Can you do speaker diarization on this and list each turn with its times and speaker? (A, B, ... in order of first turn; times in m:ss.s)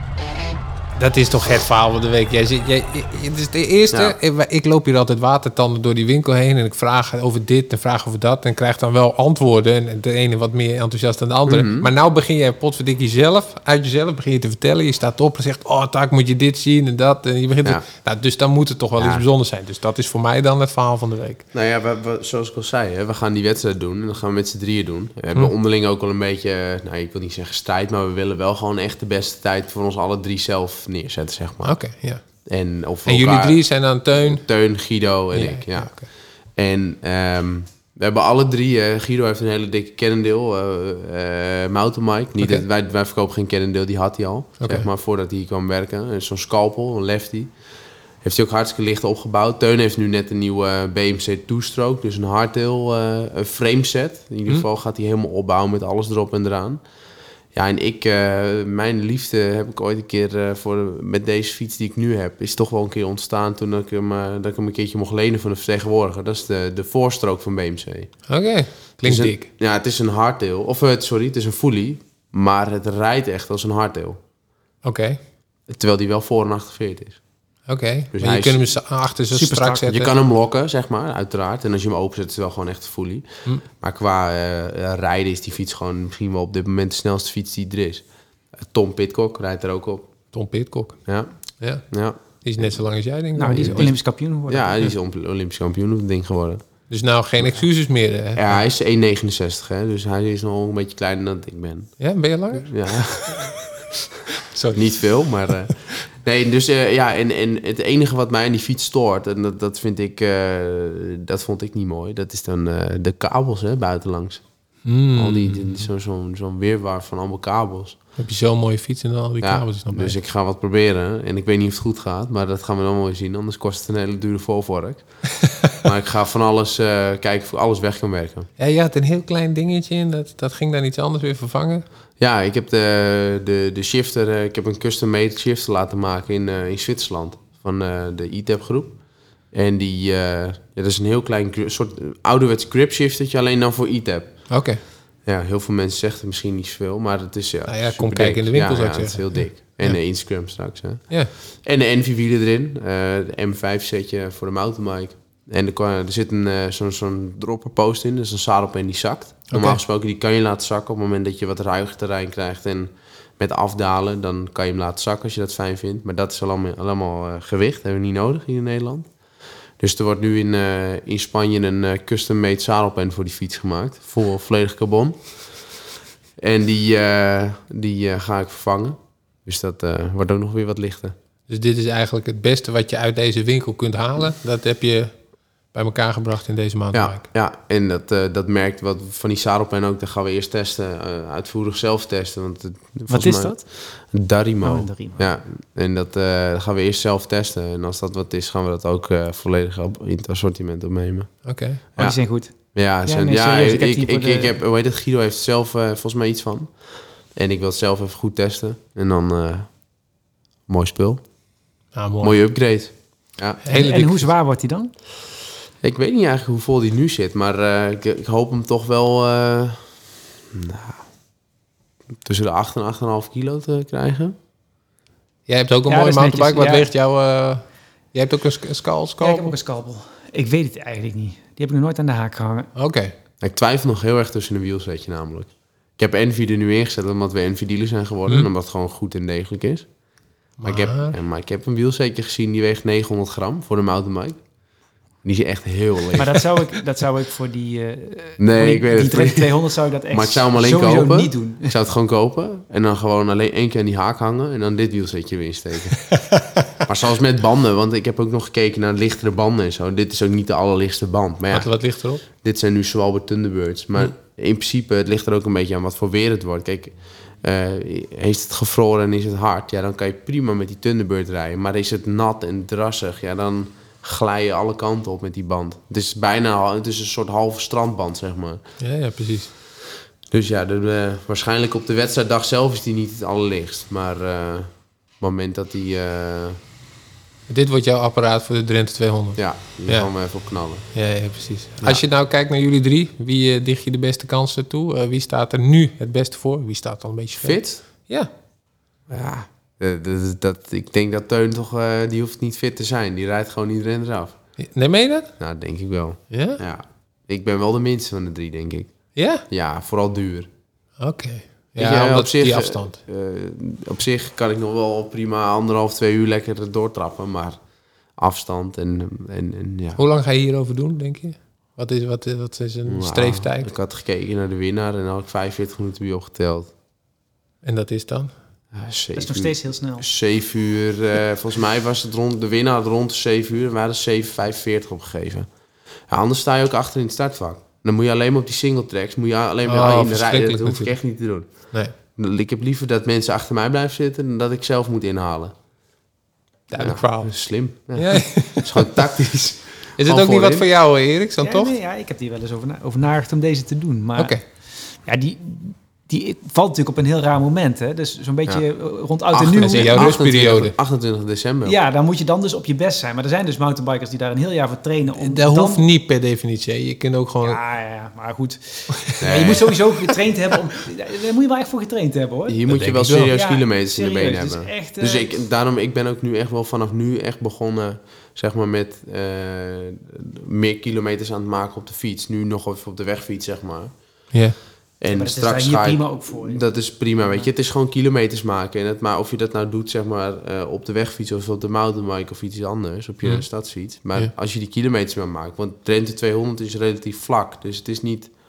0:01.0-0:21.5 A
0:11.5-0:11.9 B
0:19.0-0:19.3 B
0:21.5-0:31.8 B
0:31.6-0:32.2 A
0:32.4-0:47.5 B
0:33.1-0:34.4 A
0:35.3-0:36.1 A
0:42.4-0:42.6 A
0:44.6-0:44.9 A
0:48.2-0:56.8 B
0:57.5-1:08.2 B
1:08.3-1:09.5 A
1:09.0-1:14.2 B
1:14.8-1:15.2 A
1:15.7-1:17.2 B
1:17.7-1:20.1 A
1:18.1-1:18.6 B
1:19.3-1:19.9 C
1:19.9-1:28.1 B
1:28.6-1:30.1 B
1:30.3-1:31.0 A
1:31.1-1:31.3 B
1:31.6-1:31.9 A
1:31.9-1:32.7 B
1:32.4-1:33.9 A
1:33.4-1:34.8 C
1:33.5-1:33.9 B
1:34.5-1:36.6 B
1:36.9-1:38.6 A
1:38.4-1:42.0 B
1:42.0-1:42.7 A
1:42.5-1:43.6 B
1:43.2-1:43.6 A
1:44.4-1:44.9 A
1:44.7-1:54.4 B
1:54.8-1:55.9 A
1:55.1-1:58.0 B
1:58.2-2:00.2 A
1:59.4-2:08.5 B
2:08.6-2:11.8 A
2:12.2-2:19.0 B
2:19.5-2:24.6 B
2:24.5-2:24.8 A
2:25.3-2:49.1 B
2:27.7-2:30.0 A
2:39.5-2:39.8 A
2:49.8-2:55.7 B
2:56.4-3:01.2 B
3:01.5-3:05.1 A
3:05.7-3:07.2 A
3:06.9-3:22.2 B
3:13.1-3:13.6 C
3:14.6-3:15.2 C
3:21.4-3:21.8 A
3:22.0-3:24.6 C
3:22.7-3:26.8 B
3:27.3-3:29.7 B
3:30.7-3:31.2 B
3:31.9-3:32.4 A
3:32.2-3:33.6 B
3:33.6-3:34.3 A
3:33.7-3:34.9 C
3:35.8-3:40.0 B
3:40.5-3:41.0 B
3:42.2-3:44.4 B
3:45.5-3:49.5 A
3:45.9-3:46.9 C
3:49.2-3:52.7 C
3:52.8-3:53.1 A
3:53.4-3:59.9 B
4:00.6-4:01.2 A
4:00.6-4:04.4 B
4:05.2-4:06.5 B
4:06.2-4:11.7 C
4:08.4-4:16.1 B
4:16.1-4:16.7 A
4:16.8-4:21.8 B
4:21.5-4:22.2 A
4:22.4-4:38.6 B
4:38.8-4:39.5 A
4:40.3-4:46.6 B
4:47.5-4:50.1 A
4:49.4-4:50.9 B
4:50.9-4:58.3 A
4:57.4-4:57.8 B
4:59.1-5:04.4 B
5:04.6-5:05.3 A
5:05.4-5:08.9 B
5:06.3-5:06.6 A
5:09.2-5:09.4 A
5:09.5-5:10.5 B
5:11.0-5:13.0 A
5:11.8-5:17.6 B
5:18.2-5:20.0 B
5:20.0-5:23.7 A
5:22.9-5:26.7 B
5:27.6-5:28.3 A
5:28.7-5:35.5 B
5:29.2-5:30.1 C
5:36.1-5:45.5 B
5:39.7-5:41.0 A
5:46.7-5:47.3 A
5:46.8-5:50.7 B
5:48.0-5:49.0 A
5:50.0-5:51.7 A
5:51.4-6:00.2 C
5:59.3-6:01.8 B
5:59.5-6:00.7 A
6:01.6-6:05.8 C
6:05.2-6:07.6 A
6:07.4-6:12.6 C
6:08.9-6:09.6 A
6:09.2-6:09.8 B
6:12.5-6:24.2 B
6:12.7-6:13.4 A
6:13.3-6:15.3 C
6:24.3-6:24.6 A
6:25.0-6:38.3 B
6:25.1-6:26.6 C